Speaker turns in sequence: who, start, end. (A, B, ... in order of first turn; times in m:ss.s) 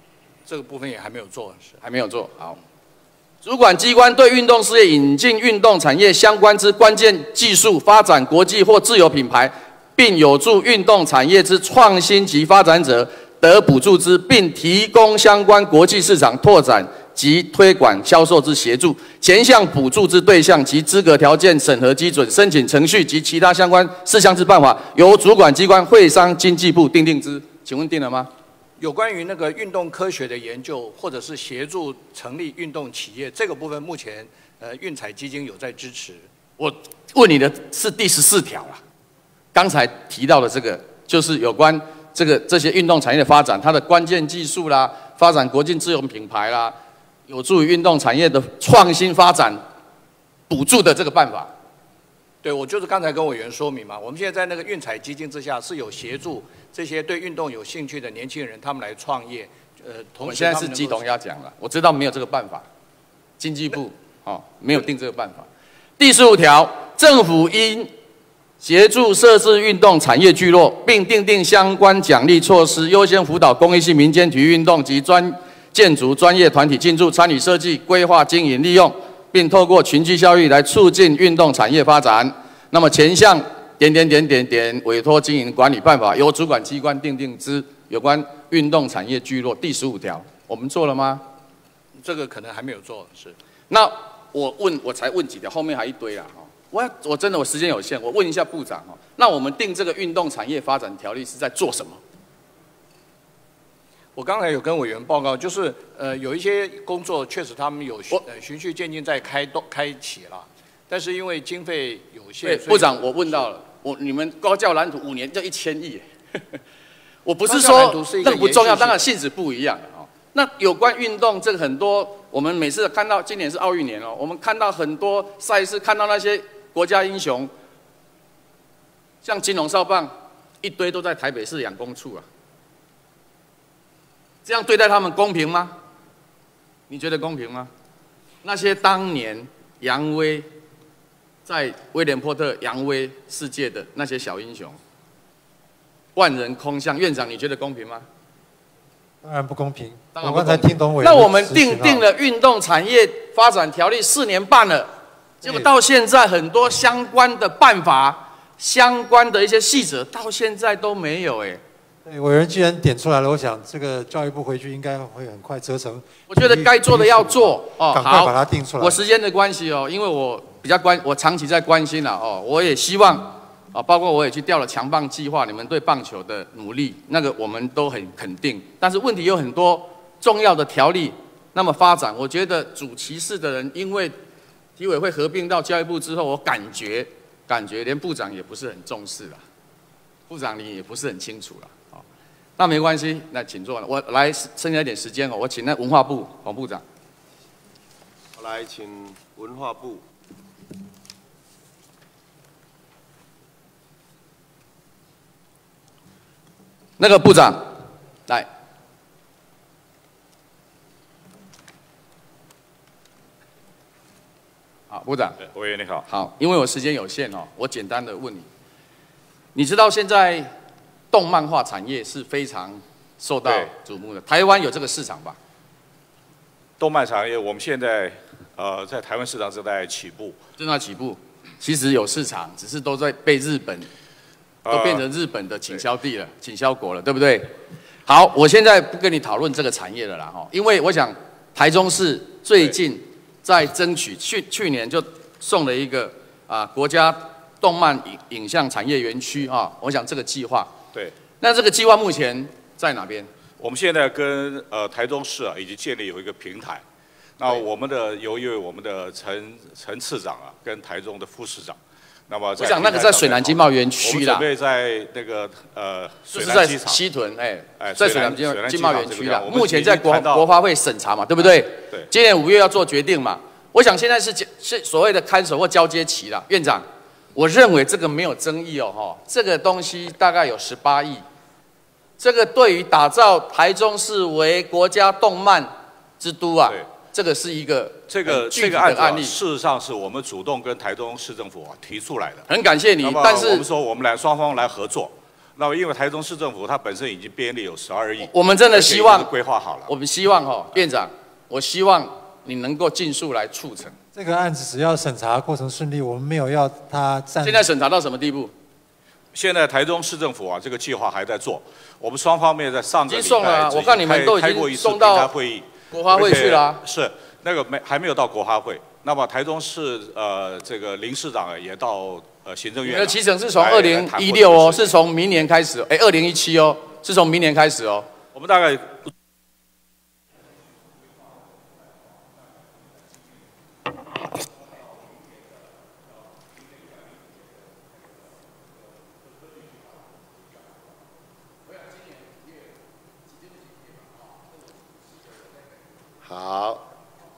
0:00.4-0:01.8 A
0:01.8-0:02.6 B
0:03.4-0:28.3 B
0:28.8-0:36.2 A
0:36.6-0:38.8 B
0:39.5-0:46.8 B
0:47.3-0:49.6 B
0:50.5-0:51.5 B
0:52.4-1:01.0 A
1:00.2-1:02.6 B
1:03.4-1:05.5 B
1:06.0-1:07.9 B
1:08.6-1:31.2 B
1:31.9-1:33.4 A
1:33.7-1:42.0 B
1:44.1-1:52.9 A
1:52.4-1:56.6 B
1:57.2-2:07.5 B
1:57.5-1:59.1 A
2:09.2-2:12.2 B
2:14.4-2:15.7 B
2:16.9-2:17.7 B
2:18.4-2:20.5 B
2:21.4-2:24.8 B
2:26.2-2:28.0 B
2:29.2-2:32.0 C
2:30.1-2:34.9 B
2:35.4-2:35.7 C
2:35.4-2:41.6 B
2:42.0-2:49.0 C
2:46.3-3:04.1 B
3:04.8-3:09.4 B
3:10.3-3:12.0 B
3:12.6-3:16.8 B
3:18.4-3:20.0 D
3:27.0-3:28.5 B
3:34.9-3:35.4 B
3:35.4-3:36.0 E
3:36.1-3:38.5 B
3:39.5-3:40.5 B
3:41.1-3:45.4 B
3:46.8-3:50.4 E
3:50.6-3:53.9 B
3:54.6-3:55.0 E
3:54.7-3:57.5 B
3:58.0-4:10.7 B
4:11.4-4:13.3 B
4:13.6-4:16.8 E
4:17.4-4:27.0 E
4:22.6-4:24.4 B
4:26.3-4:41.2 B
4:27.8-4:30.5 E
4:42.2-4:49.4 B
4:48.1-4:52.5 E
4:52.5-4:53.6 B
4:53.0-4:59.9 E
4:58.2-4:59.3 B
4:59.8-5:04.0 B
5:04.1-5:07.7 C
5:07.4-5:08.5 B
5:09.3-5:25.0 E
5:13.1-5:15.3 B
5:15.9-5:16.8 B
5:22.8-5:28.1 B
5:28.3-5:29.1 E
5:46.2-5:46.8 D